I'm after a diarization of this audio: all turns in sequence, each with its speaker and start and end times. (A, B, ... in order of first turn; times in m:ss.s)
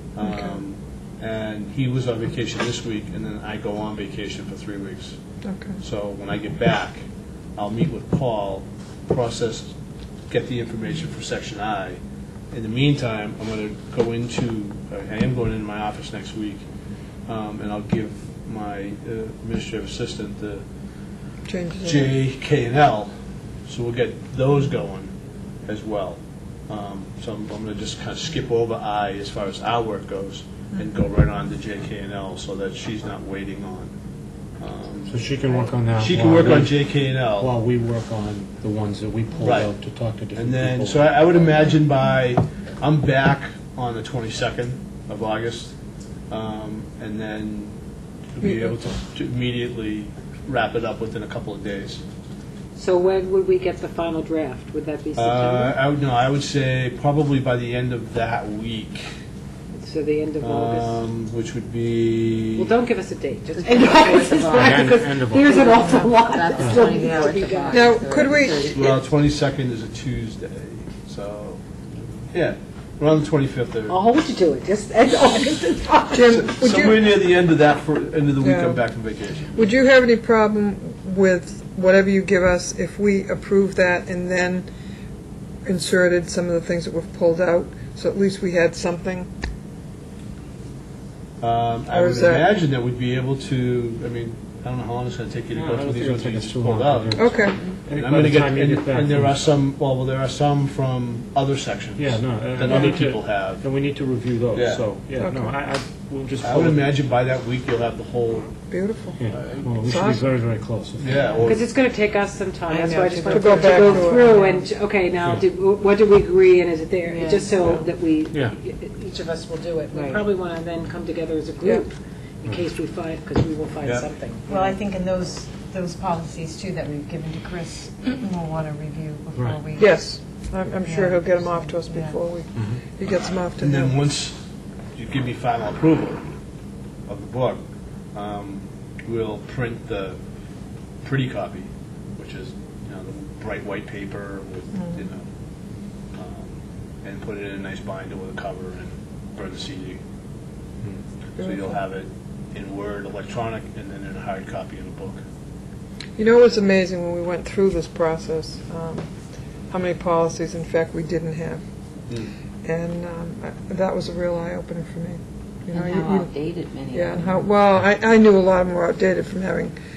0:00.2-0:05.2 A
0:00.2-0:00.6 B
0:05.4-0:05.8 B
0:05.8-0:07.0 A
0:07.6-0:09.7 A
0:10.3-0:12.0 A
0:12.5-0:16.6 A
0:17.3-0:20.6 A
0:21.5-0:22.1 B
0:21.8-0:23.1 A
0:23.7-0:25.1 A
0:25.7-0:33.9 A
0:34.6-0:35.1 A
0:35.1-0:41.1 C
0:36.0-0:37.5 A
0:39.4-0:39.7 A
0:40.4-0:45.8 A
0:46.3-0:47.8 A
0:48.4-0:52.0 A
0:48.4-0:48.7 B
0:52.8-0:55.7 D
0:55.2-0:59.0 A
0:59.7-1:01.0 D
1:00.4-1:02.7 A
1:02.6-1:08.0 D
1:03.6-1:09.0 E
1:04.6-1:05.5 C
1:06.6-1:06.9 C
1:07.7-1:08.7 B
1:08.7-1:11.6 A
1:12.3-1:14.0 A
1:13.9-1:16.5 D
1:16.1-1:17.2 B
1:16.3-1:19.6 A
1:18.4-1:18.8 B
1:19.5-1:24.7 B
1:25.6-1:29.3 B
1:31.4-1:37.1 A
1:31.9-1:32.5 B
1:35.5-1:39.4 C
1:37.1-1:37.6 B
1:38.0-1:43.6 A
1:42.0-1:46.9 C
1:42.7-1:43.0 B
1:44.5-1:44.9 A
1:45.2-1:45.6 B
1:46.4-1:48.5 A
1:48.7-1:49.2 B
1:49.2-1:51.6 C
1:49.4-1:49.6 A
1:49.8-1:50.3 B
1:51.0-1:51.6 A
1:51.4-2:04.8 D
1:52.7-1:54.7 F
1:53.2-1:54.3 B
1:57.1-1:57.9 F
1:59.9-2:00.2 F
2:04.5-2:10.0 F
2:09.4-2:09.6 C
2:09.8-2:13.9 B
2:10.8-2:12.2 F
2:13.6-2:14.4 A
2:15.0-2:16.3 A
2:17.1-2:17.6 A
2:18.1-2:20.2 A
2:21.0-2:25.3 A
2:26.1-2:30.0 A
2:31.4-2:31.7 B
2:31.4-2:35.2 A
2:36.2-2:39.1 B
2:39.7-2:41.6 B
2:42.6-2:46.3 B
2:45.7-2:47.5 E
2:46.9-2:49.8 B